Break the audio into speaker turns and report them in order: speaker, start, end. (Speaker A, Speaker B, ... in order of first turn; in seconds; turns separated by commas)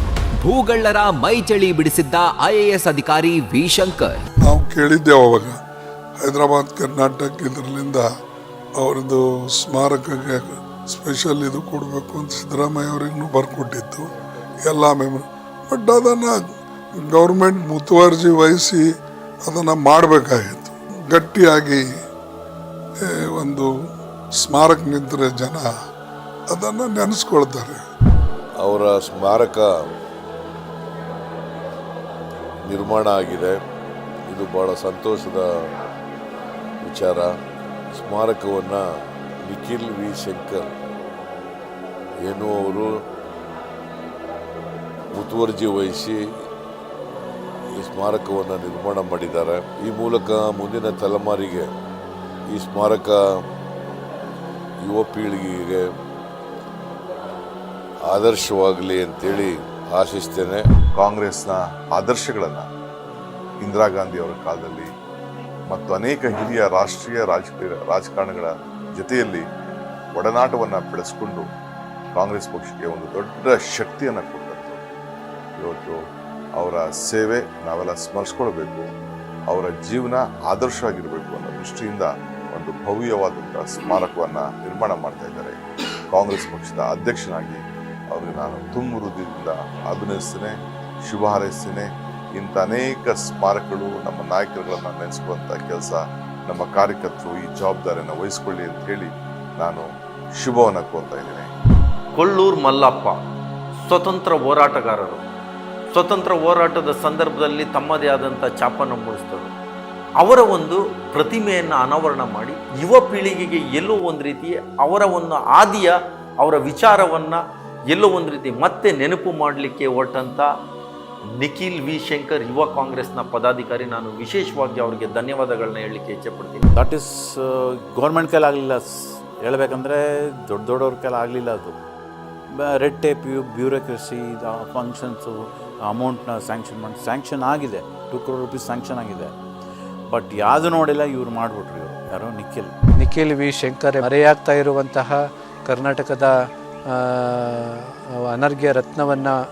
Speaker A: 0.4-4.2, Speaker B: 4.4-5.6, Speaker B: 6.2-8.1, Speaker B: 8.8-14.1, Speaker B: 14.6-16.5, Speaker B: 17.0-18.8, Speaker B: 19.4-21.8, Speaker B: 23.0-23.7, Speaker B: 24.4-25.6, Speaker B: 26.5-27.8, Speaker C: 28.6-29.7, Speaker C: 32.6-33.6, Speaker C: 34.3-35.5, Speaker C: 36.8-37.3, Speaker C: 37.9-38.8, Speaker C: 39.4-40.7, Speaker C: 42.2-42.9, Speaker C: 45.1-46.2, Speaker C: 47.8-51.7, Speaker C: 52.5-53.2, Speaker C: 54.8-55.9, Speaker C: 58.1-60.7, Speaker D: 60.9-62.7, Speaker D: 63.6-64.9, Speaker D: 65.7-69.4, Speaker D: 70.1-71.5, Speaker D: 72.1-74.8, Speaker D: 75.6-76.0, Speaker D: 76.5-78.9, Speaker D: 79.5-85.6, Speaker D: 86.1-101.5, Speaker E: 102.2-103.2, Speaker E: 103.8-105.2, Speaker E: 105.9-109.5, Speaker E: 110.2-120.5, Speaker E: 121.4-126.6, Speaker F: 126.7-131.8, Speaker F: 132.5-139.3, Speaker F: 140.1-142.7, Speaker G: 142.9-146.3, Speaker G: 146.9-149.3